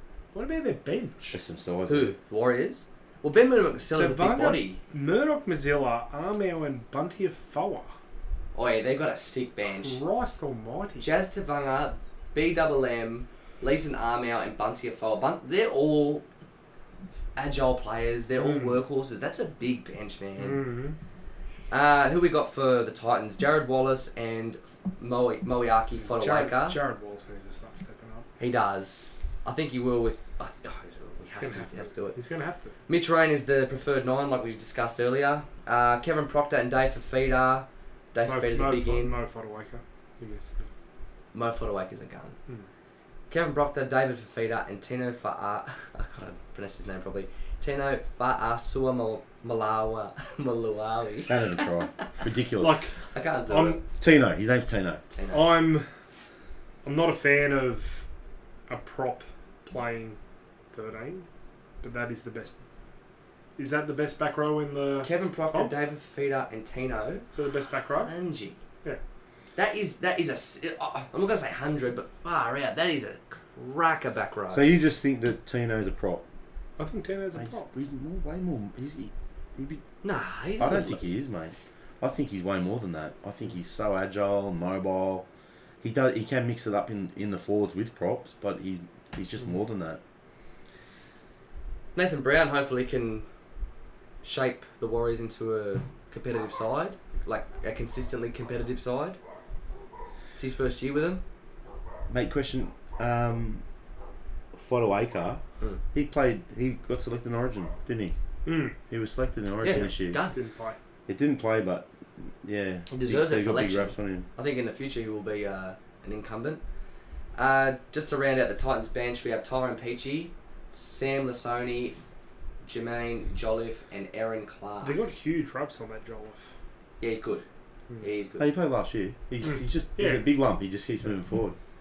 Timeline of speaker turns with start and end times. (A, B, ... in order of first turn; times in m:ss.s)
0:00.3-0:01.4 A
0:01.3-0:02.1 B
0:01.9-0:04.8 C
0:03.9-0:07.9 A
0:08.5-0:10.0 C
0:09.7-0:11.1 A
0:11.0-0:16.2 C
0:17.4-0:20.7 C
0:18.4-0:18.8 A
0:20.4-0:21.0 A
0:21.7-0:26.8 C
0:26.0-0:28.3 A
0:28.4-0:32.2 C
0:31.4-0:32.7 A
0:32.9-0:39.2 C
0:38.2-0:40.7 A
0:41.3-0:42.4 C
0:43.3-0:52.0 C
0:51.3-0:52.8 B
0:52.6-0:52.9 A
0:53.1-0:53.8 C
0:53.5-0:53.8 A
0:54.0-0:55.0 B
0:55.1-0:55.6 C
0:55.3-0:55.9 A
0:56.8-0:58.1 A
0:58.7-1:00.2 A
1:00.7-1:01.3 A
1:01.8-1:02.6 A
1:03.6-1:05.7 A
1:05.0-1:07.2 C
1:07.3-1:08.1 A
1:08.0-1:08.6 C
1:09.6-1:14.7 C
1:14.5-1:16.2 B
1:16.8-1:17.7 A
1:17.3-1:19.8 B
1:20.0-1:21.0 C
1:20.6-1:25.2 B
1:25.8-1:30.0 B
1:31.9-1:33.2 C
1:34.2-1:39.2 C
1:40.3-1:41.2 C
1:42.1-1:43.6 B
1:44.5-1:45.4 B
1:45.9-1:48.1 B
1:48.4-1:48.8 A
1:48.9-1:50.2 B
1:49.6-1:50.4 C
1:49.8-1:50.8 A
1:51.1-1:54.2 B
1:52.9-1:56.6 C
1:57.3-2:02.0 C
2:02.6-2:05.0 C
2:04.8-2:06.5 A
2:07.0-2:07.4 C
2:08.0-2:08.5 C
2:08.4-2:11.6 B
2:09.4-2:10.3 A